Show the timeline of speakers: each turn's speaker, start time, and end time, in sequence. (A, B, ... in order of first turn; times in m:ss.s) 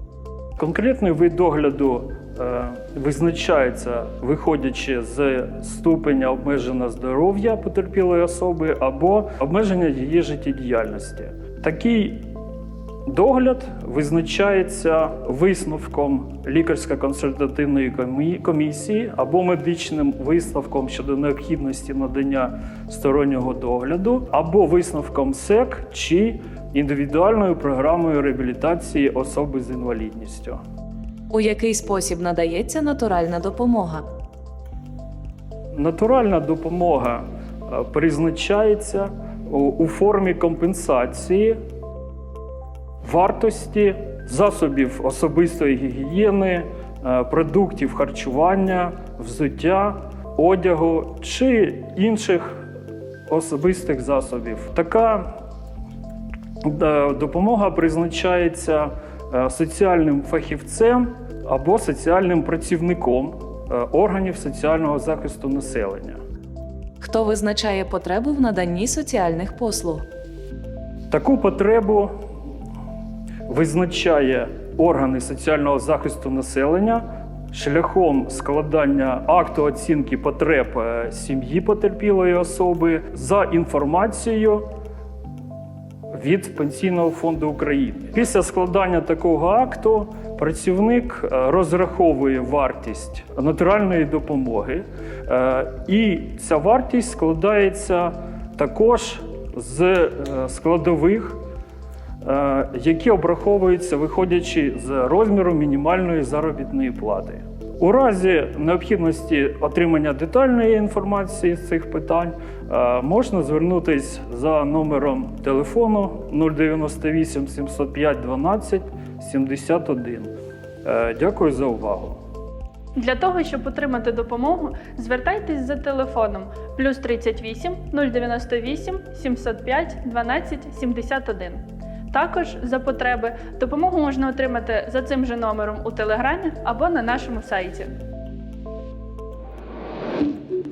0:00.6-0:12.3 A
0:13.0-0:30.6 A
0:31.3-0:34.0 B
0:35.7-0:41.6 A
0:43.0-0:52.6 A
0:53.3-0:55.3 A
0:56.6-1:06.2 A
1:07.0-1:10.0 B
1:11.1-1:12.1 A
1:13.5-1:24.6 A
1:26.1-1:41.4 A
1:42.2-2:00.3 A
2:00.8-2:02.2 A
2:03.0-2:17.9 C